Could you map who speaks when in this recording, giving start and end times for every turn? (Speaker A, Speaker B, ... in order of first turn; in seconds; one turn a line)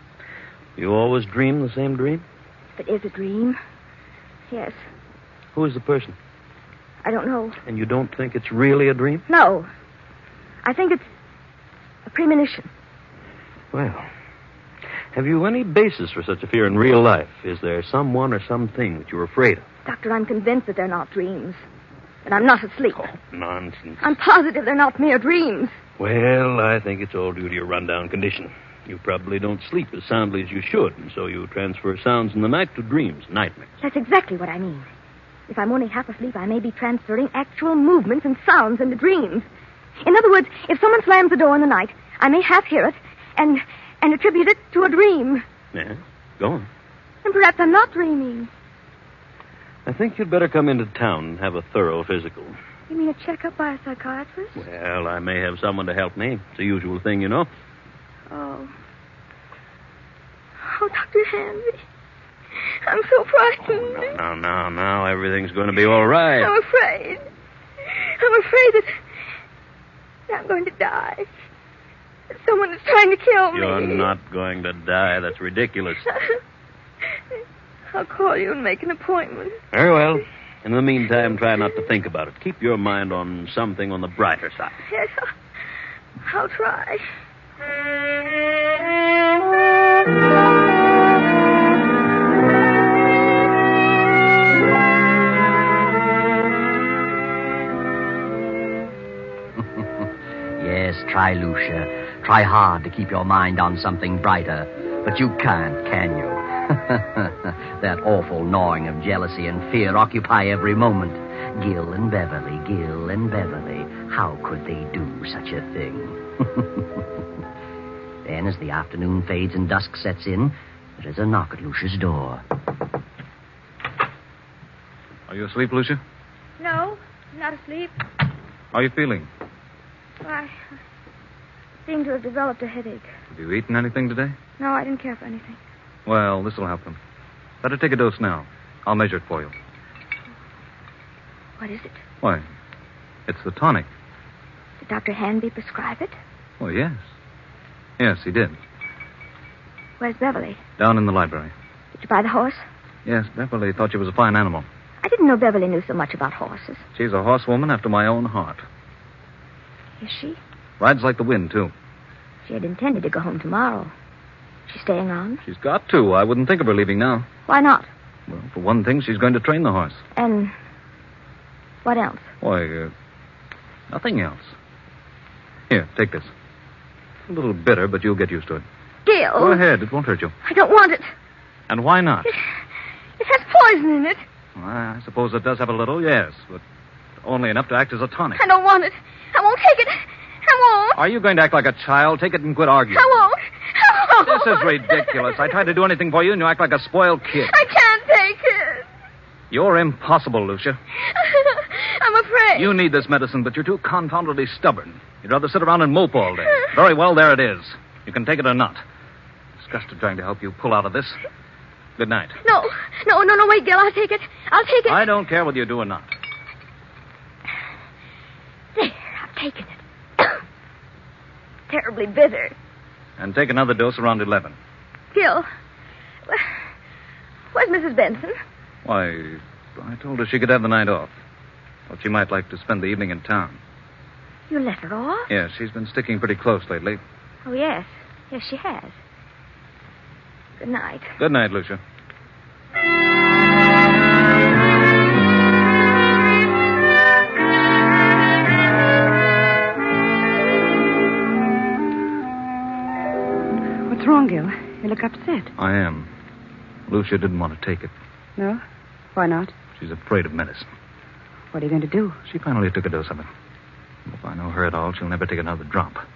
Speaker A: 0.8-2.2
Speaker B: 2.8-3.6
Speaker B: 4.5-4.8
Speaker A: 5.5-6.2
Speaker B: 7.0-7.6
Speaker A: 7.7-9.2
Speaker B: 9.3-9.7
Speaker B: 10.6-11.1
Speaker B: 12.1-12.7
Speaker A: 13.7-14.1
Speaker A: 15.1-19.6
Speaker B: 19.9-21.6
Speaker B: 22.2-23.1
Speaker A: 23.0-24.1
Speaker B: 24.0-25.8
Speaker A: 26.0-33.7
Speaker B: 33.8-34.9
Speaker B: 35.5-39.5
Speaker B: 40.0-45.5
Speaker A: 45.7-46.7
Speaker B: 47.2-48.5
Speaker A: 49.9-52.6
Speaker B: 52.9-54.6
Speaker A: 54.6-57.5
Speaker B: 58.3-58.7
Speaker B: 60.6-61.8
Speaker B: 62.6-64.1
Speaker A: 63.7-66.5
Speaker B: 66.3-67.2
Speaker B: 67.9-69.0
Speaker B: 70.3-71.3
Speaker B: 72.3-74.1
Speaker A: 73.5-76.1
Speaker B: 77.9-79.6
Speaker A: 79.7-84.8
Speaker B: 84.9-85.3
Speaker B: 86.2-87.1
Speaker C: 99.6-117.0
Speaker C: 118.2-122.4
Speaker D: 125.3-126.0
Speaker B: 126.6-128.0
Speaker D: 128.7-129.3
Speaker B: 130.2-130.6
Speaker B: 131.9-133.1
Speaker D: 133.3-134.3
Speaker B: 134.6-135.6
Speaker D: 136.1-137.0
Speaker D: 137.6-139.5
Speaker B: 141.6-142.0
Speaker D: 143.3-143.9
Speaker B: 144.8-146.2
Speaker D: 146.6-147.0
Speaker D: 148.0-148.6
Speaker B: 150.0-150.6
Speaker D: 150.8-151.5
Speaker B: 151.9-152.6
Speaker D: 153.1-154.7
Speaker B: 155.0-156.8
Speaker D: 156.9-158.6
Speaker B: 160.0-160.4
Speaker D: 160.8-161.7
Speaker B: 162.4-163.9
Speaker B: 164.7-165.4
Speaker D: 165.5-167.3
Speaker B: 167.5-167.9
Speaker D: 168.3-170.0
Speaker B: 170.2-170.5
Speaker B: 171.8-172.3
Speaker D: 172.4-172.9
Speaker D: 173.9-174.5
Speaker D: 175.7-176.3
Speaker D: 177.3-178.7
Speaker B: 179.1-179.6
Speaker D: 179.4-180.3
Speaker B: 180.4-181.1
Speaker D: 181.7-182.3
Speaker B: 183.2-184.2
Speaker D: 184.6-186.6
Speaker D: 187.2-188.4
Speaker B: 188.3-191.0
Speaker D: 190.9-193.1
Speaker B: 192.9-195.4
Speaker D: 194.2-197.5
Speaker B: 197.4-198.9
Speaker D: 199.5-200.8
Speaker B: 201.1-202.8
Speaker D: 202.6-208.8
Speaker D: 209.6-211.2
Speaker D: 212.0-212.4
Speaker B: 212.4-215.1
Speaker D: 214.9-216.1
Speaker B: 218.8-220.4
Speaker B: 221.7-222.6
Speaker D: 223.2-224.6
Speaker B: 225.1-225.5
Speaker B: 227.5-228.3
Speaker D: 228.8-231.1
Speaker D: 231.9-233.6
Speaker B: 234.5-235.3
Speaker D: 235.3-237.0
Speaker B: 237.4-238.9
Speaker B: 240.6-241.2
Speaker D: 241.2-241.8
Speaker E: 253.9-255.5
Speaker D: 255.6-256.1
Speaker D: 256.9-257.9
Speaker E: 258.4-258.6
Speaker E: 259.1-259.6
Speaker D: 259.8-260.7
Speaker E: 261.5-262.2
Speaker D: 262.3-263.3
Speaker D: 264.1-266.0